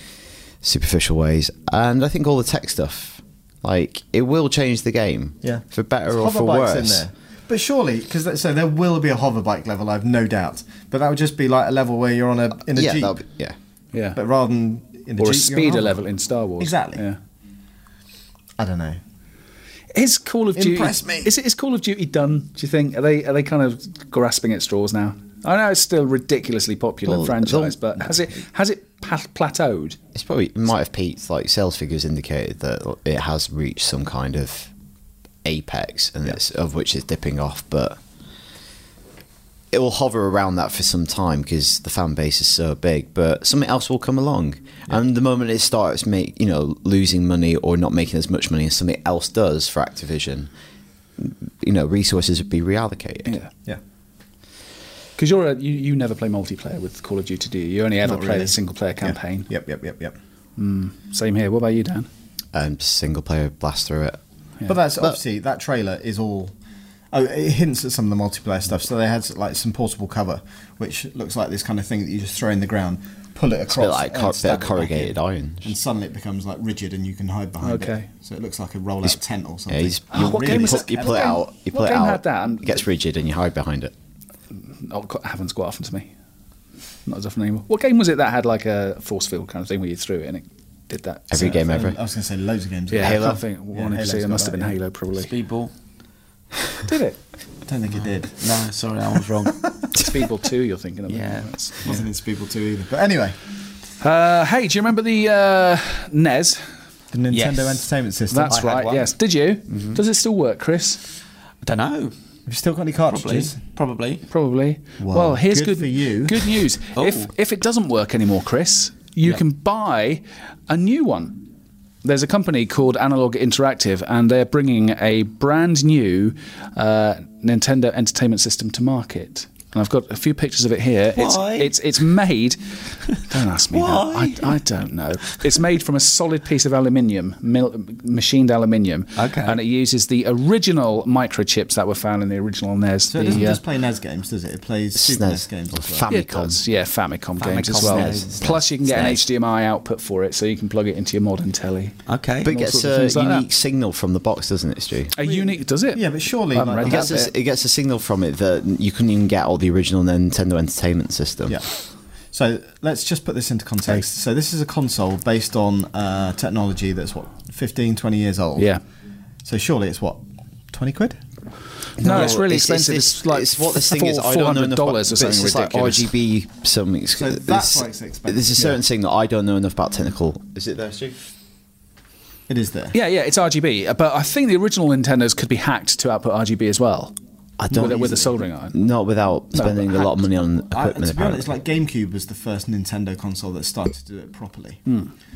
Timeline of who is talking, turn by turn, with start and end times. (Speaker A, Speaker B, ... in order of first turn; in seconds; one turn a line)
Speaker A: 0.6-7.0
Speaker B: 5.4-13.2
Speaker A: 12.7-13.6
Speaker C: 13.9-14.2
Speaker B: 14.2-16.0
Speaker C: 15.2-17.2
Speaker B: 16.6-17.0
Speaker B: 18.6-19.0
Speaker C: 19.9-30.0
Speaker B: 20.6-21.3
Speaker A: 27.1-27.8
Speaker A: 30.1-34.7
Speaker A: 35.4-38.0
Speaker A: 39.7-50.5
Speaker A: 51.2-53.4
Speaker C: 53.2-53.5
Speaker C: 55.2-59.5
Speaker B: 58.0-60.2
Speaker C: 60.6-62.1
Speaker A: 62.5-64.2
Speaker B: 64.7-66.5
Speaker B: 67.1-81.4
Speaker A: 73.7-75.8
Speaker C: 77.6-78.1
Speaker A: 79.0-83.9
Speaker C: 80.1-82.8
Speaker C: 84.5-86.1
Speaker C: 87.1-91.6
Speaker A: 91.3-92.0
Speaker B: 91.3-94.8
Speaker C: 92.9-95.3
Speaker A: 93.0-93.4
Speaker D: 95.2-95.7
Speaker C: 96.9-97.2
Speaker B: 97.7-98.4
Speaker D: 98.4-99.7
Speaker C: 99.9-101.8
Speaker D: 101.1-102.0
Speaker B: 101.8-103.4
Speaker C: 104.0-106.7
Speaker B: 107.1-108.6
Speaker D: 107.3-107.9
Speaker C: 108.3-111.0
Speaker D: 108.5-109.1
Speaker D: 111.6-112.1
Speaker B: 112.5-113.6
Speaker D: 113.1-114.2
Speaker C: 114.3-121.4
Speaker B: 115.0-116.6
Speaker D: 117.0-117.3
Speaker C: 122.0-143.6
Speaker D: 131.2-131.7
Speaker D: 133.7-134.6
Speaker D: 139.2-139.6
Speaker B: 143.1-146.1
Speaker A: 144.9-146.6
Speaker C: 146.1-153.5
Speaker D: 147.4-148.4
Speaker A: 147.7-149.2
Speaker D: 152.1-152.5
Speaker A: 152.4-155.2
Speaker C: 155.1-157.3
Speaker B: 155.2-157.3
Speaker A: 156.8-161.6
Speaker B: 161.5-161.8
Speaker B: 162.3-168.8
Speaker C: 168.6-168.8
Speaker B: 169.4-171.2
Speaker C: 172.0-176.1
Speaker A: 172.0-181.2
Speaker B: 177.2-178.8
Speaker B: 182.5-182.9
Speaker C: 182.9-187.2
Speaker A: 187.6-191.5
Speaker C: 187.7-188.8
Speaker B: 187.7-188.2
Speaker C: 189.5-190.1
Speaker B: 190.7-194.8